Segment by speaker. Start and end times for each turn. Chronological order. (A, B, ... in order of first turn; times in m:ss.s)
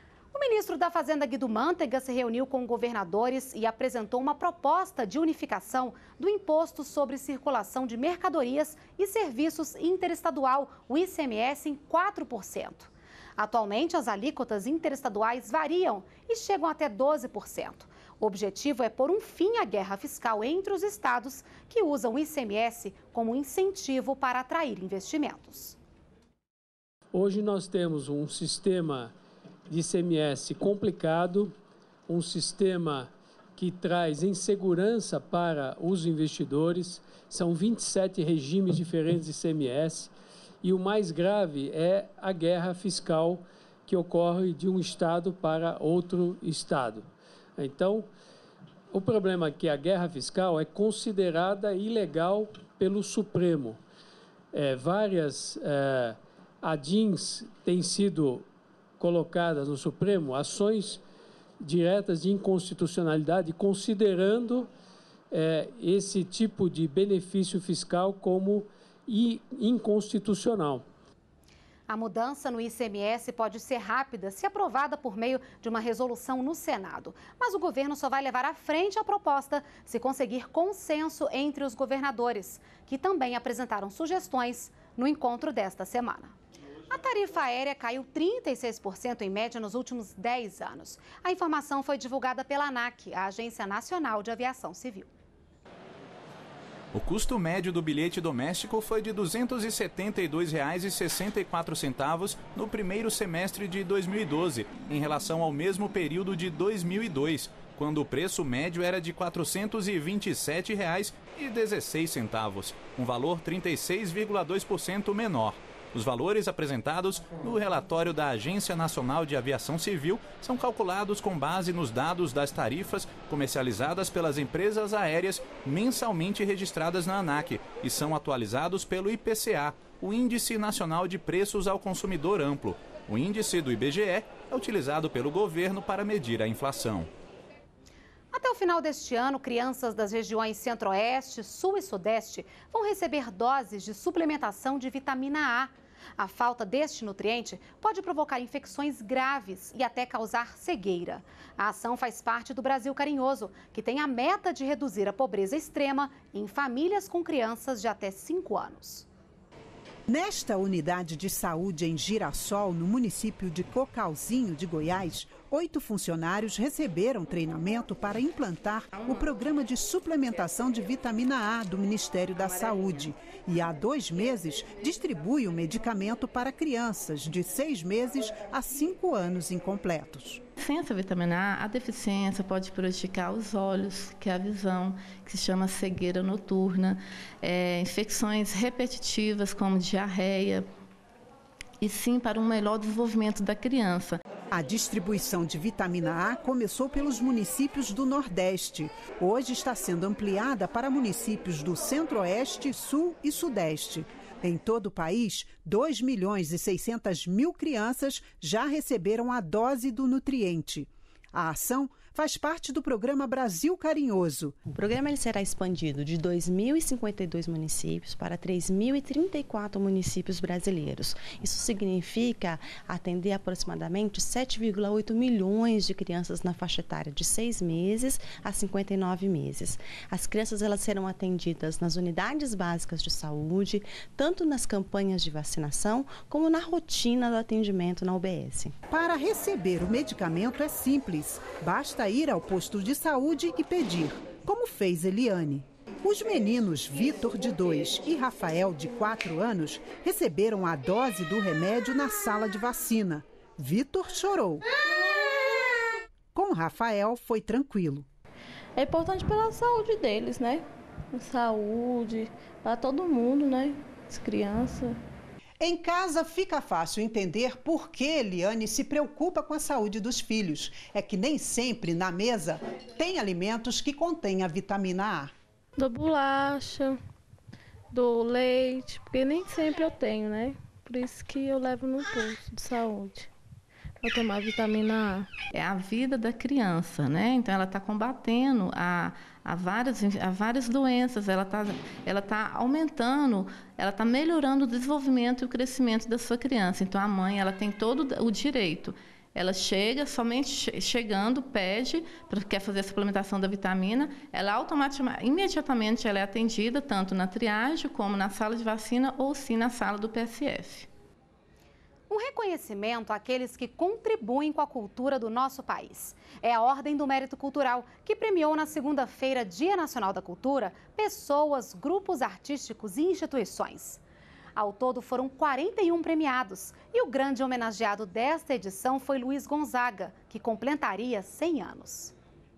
0:00.3-0:25.8 A
0:27.1-0:29.1 B
0:29.7-0:31.5 B
0:32.1-0:40.1 B
0:40.6-0:48.1 B
0:48.9-0:53.8 B
0:54.5-0:58.4 B
0:59.0-1:01.0 B
1:01.6-1:04.7 B
1:05.3-1:10.8 B
1:11.9-1:26.3 A
1:26.9-1:35.1 A
1:36.9-2:17.1 C
2:18.3-2:39.1 A
2:40.1-3:00.4 D
3:00.6-3:10.7 E
3:11.8-3:14.2 E
3:14.5-3:34.5 D
3:34.7-3:58.8 F
3:58.9-4:14.6 D
4:16.3-4:18.0 D
4:18.8-4:24.9 G
4:25.6-4:35.3 D
4:35.8-4:36.9 G
4:37.9-4:43.3 G
4:44.0-4:45.3 G
4:45.5-5:10.9 E
5:12.1-5:24.0 A
5:24.6-5:32.1 A